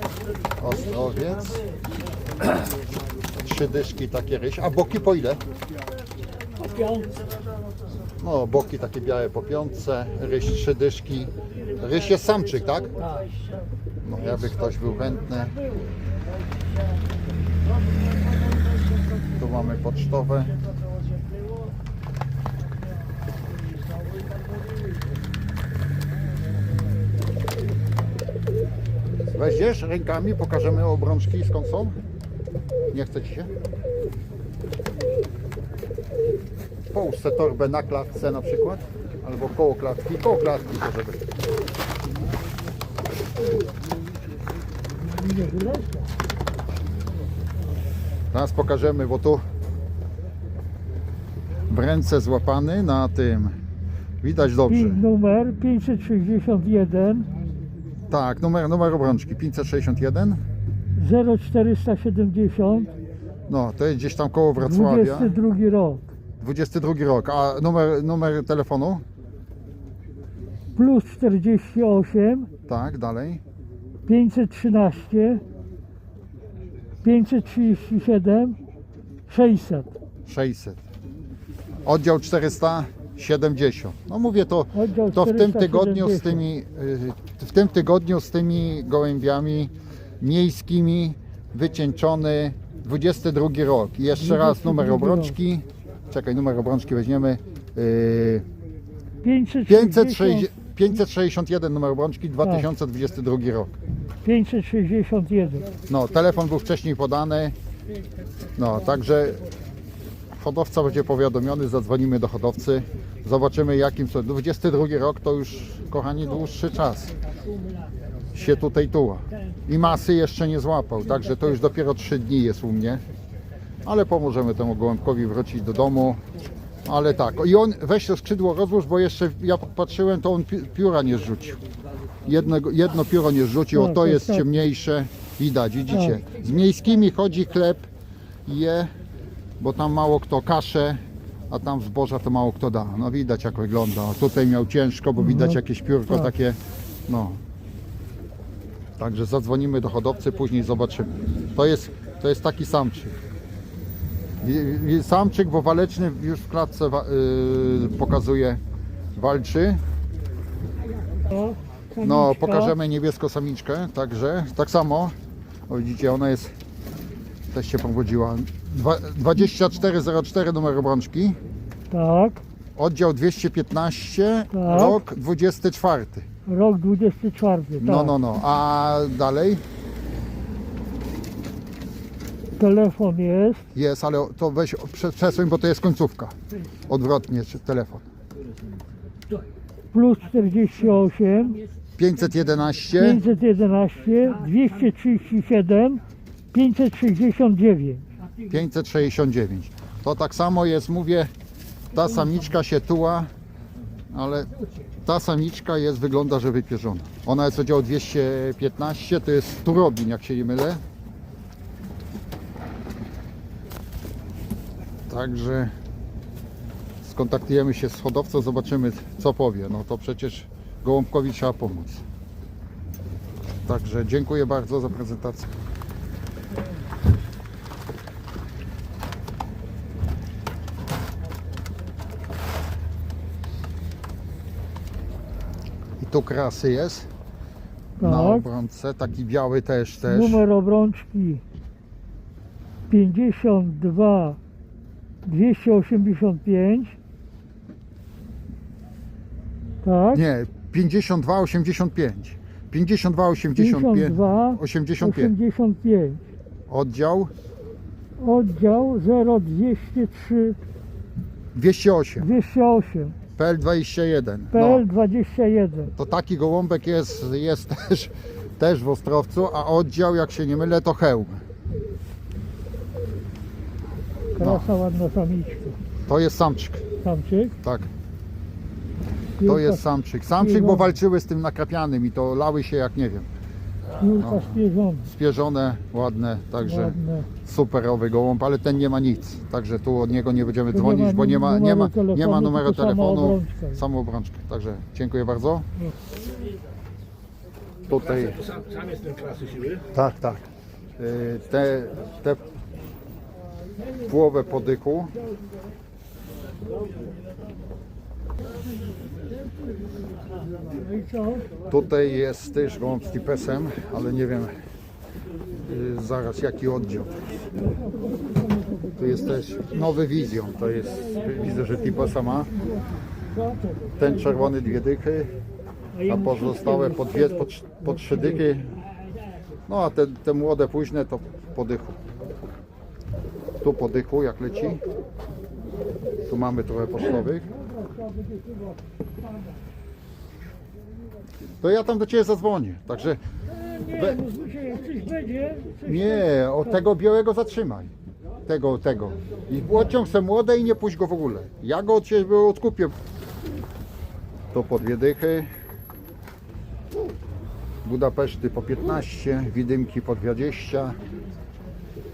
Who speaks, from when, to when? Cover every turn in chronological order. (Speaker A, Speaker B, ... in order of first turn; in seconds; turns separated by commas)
Speaker A: 0.6-1.6, Speaker A: 3.4-5.4, Speaker A: 8.2-13.0, Speaker A: 14.0-15.6, Speaker A: 19.3-20.6, Speaker A: 29.3-32.0, Speaker A: 32.9-33.5, Speaker A: 36.9-41.2, Speaker B: 45.1-46.0, Speaker A: 48.3-49.4, Speaker A: 51.7-53.6, Speaker A: 54.2-55.0, Speaker B: 54.7-57.3, Speaker A: 58.1-60.4, Speaker B: 61.0-62.9, Speaker A: 63.5-65.4, Speaker B: 64.6-66.0, Speaker A: 66.4-69.0, Speaker B: 70.8-72.5, Speaker A: 72.7-73.4, Speaker B: 74.1-75.4, Speaker B: 77.0-78.6, Speaker B: 79.3-79.9, Speaker A: 80.3-80.8, Speaker A: 81.8-98.5, Speaker B: 84.7-86.4, Speaker B: 94.2-95.4, Speaker B: 99.2-100.5, Speaker A: 99.7-103.7, Speaker B: 102.4-102.7, Speaker B: 104.2-105.7, Speaker A: 105.9-107.5, Speaker A: 108.6-109.4, Speaker A: 110.3-117.2, Speaker A: 118.3-123.0, Speaker A: 123.8-126.2, Speaker A: 126.8-131.6, Speaker A: 132.2-137.9, Speaker B: 133.7-134.5, Speaker B: 135.9-136.2, Speaker A: 138.5-138.9, Speaker A: 139.6-147.4, Speaker B: 145.2-145.6, Speaker A: 149.0-153.2, Speaker A: 154.4-158.6, Speaker A: 159.2-159.8, Speaker B: 161.3-162.7, Speaker A: 162.0-165.1, Speaker A: 165.7-166.5, Speaker A: 167.5-171.4, Speaker B: 171.9-172.4, Speaker A: 172.8-176.3, Speaker B: 174.5-175.0, Speaker B: 176.5-178.1, Speaker A: 177.8-179.6, Speaker B: 182.6-183.6, Speaker A: 183.7-186.3, Speaker A: 186.9-188.1, Speaker B: 189.9-191.6, Speaker A: 192.0-193.2, Speaker B: 193.0-198.1, Speaker A: 198.5-201.3, Speaker A: 201.9-203.3, Speaker A: 204.1-204.5, Speaker A: 205.1-210.8, Speaker A: 215.1-215.7, Speaker A: 217.0-222.0, Speaker A: 223.7-225.5, Speaker A: 236.0-237.1, Speaker B: 238.0-238.5, Speaker A: 238.0-240.4, Speaker B: 240.1-241.4, Speaker B: 242.9-244.4, Speaker B: 245.2-247.0, Speaker B: 249.8-250.2, Speaker A: 250.1-255.3, Speaker B: 253.6-256.2, Speaker A: 256.7-257.3, Speaker B: 258.2-260.6, Speaker A: 261.6-262.3, Speaker B: 262.2-263.2, Speaker A: 263.4-264.9, Speaker B: 264.5-265.9, Speaker A: 265.9-271.4, Speaker B: 274.4-275.8, Speaker A: 274.4-274.7, Speaker A: 276.1-276.9, Speaker B: 277.0-277.6, Speaker A: 277.6-277.9, Speaker B: 279.4-279.8, Speaker A: 279.4-283.3, Speaker B: 280.4-280.9, Speaker B: 284.0-285.1, Speaker A: 284.2-295.7, Speaker B: 286.6-287.3, Speaker B: 290.7-293.8, Speaker A: 297.9-298.4, Speaker C: 297.9-299.9, Speaker A: 299.9-300.5, Speaker A: 301.0-302.4, Speaker A: 304.0-305.1, Speaker B: 310.8-311.4, Speaker A: 311.7-314.6, Speaker A: 315.6-317.4, Speaker A: 319.0-322.5, Speaker B: 323.5-323.9, Speaker A: 324.0-325.3, Speaker B: 325.9-328.3, Speaker A: 326.1-328.7, Speaker A: 329.7-332.0, Speaker A: 333.6-334.8, Speaker A: 336.3-337.5, Speaker A: 341.6-343.2, Speaker B: 343.5-346.2, Speaker A: 343.9-344.2, Speaker A: 345.9-347.9, Speaker A: 348.5-352.9, Speaker A: 354.5-355.5, Speaker A: 357.9-361.0